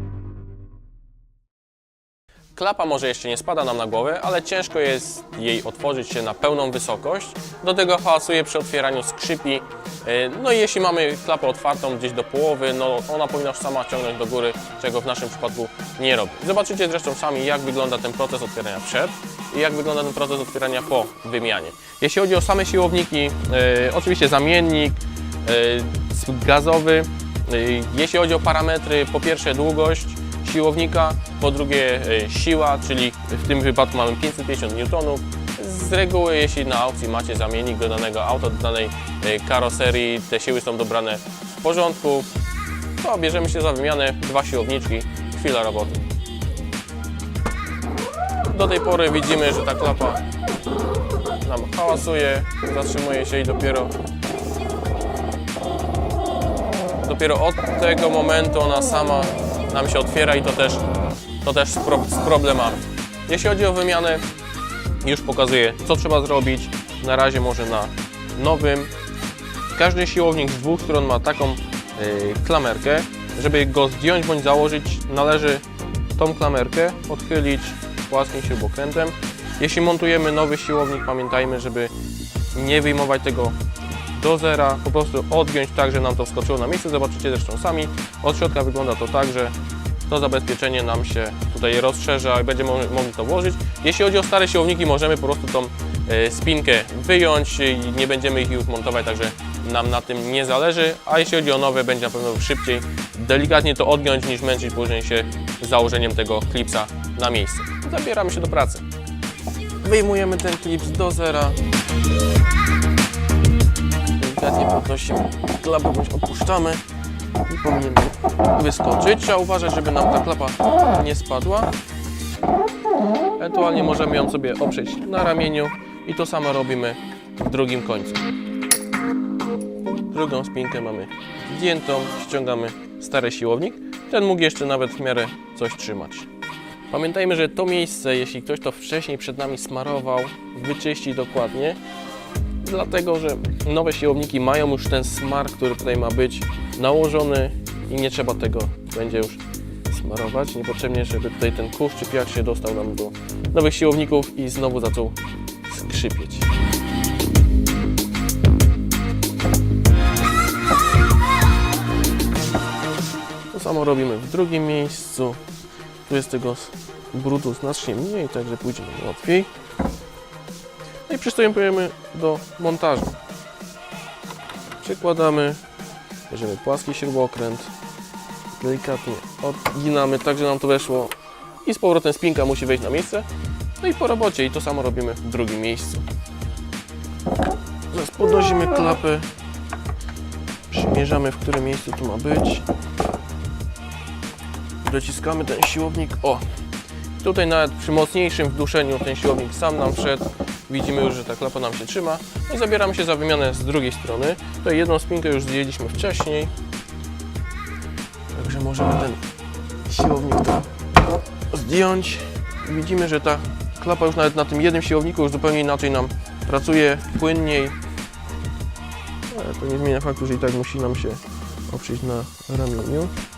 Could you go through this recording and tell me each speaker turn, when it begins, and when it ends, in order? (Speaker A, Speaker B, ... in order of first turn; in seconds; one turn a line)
Speaker A: 2.6-42.3
Speaker A: 43.0-46.0
Speaker A: 48.5-50.2
Speaker A: 51.4-54.0
Speaker A: 57.0-60.9
Speaker A: 61.4-64.2
Speaker A: 65.0-68.9
Speaker A: 69.7-75.6
Speaker A: 76.2-81.9
Speaker A: 82.5-83.6
Speaker A: 84.1-89.5
Speaker A: 90.1-108.8
Speaker A: 109.8-111.6
Speaker A: 114.2-116.8
Speaker A: 117.5-121.7
Speaker A: 123.4-128.3
Speaker A: 130.1-136.3
Speaker A: 136.9-141.8
Speaker A: 142.6-156.5
Speaker A: 163.5-165.4
Speaker A: 166.1-169.5
Speaker A: 171.1-173.2
Speaker A: 174.8-175.6
Speaker A: 176.3-177.7
Speaker A: 178.6-183.3
Speaker A: 183.8-186.1
Speaker A: 187.9-189.3
Speaker A: 190.7-192.7
Speaker A: 194.8-196.4
Speaker A: 197.2-206.5
Speaker A: 208.3-209.2
Speaker A: 209.9-210.7
Speaker A: 211.5-217.8
Speaker A: 219.3-223.2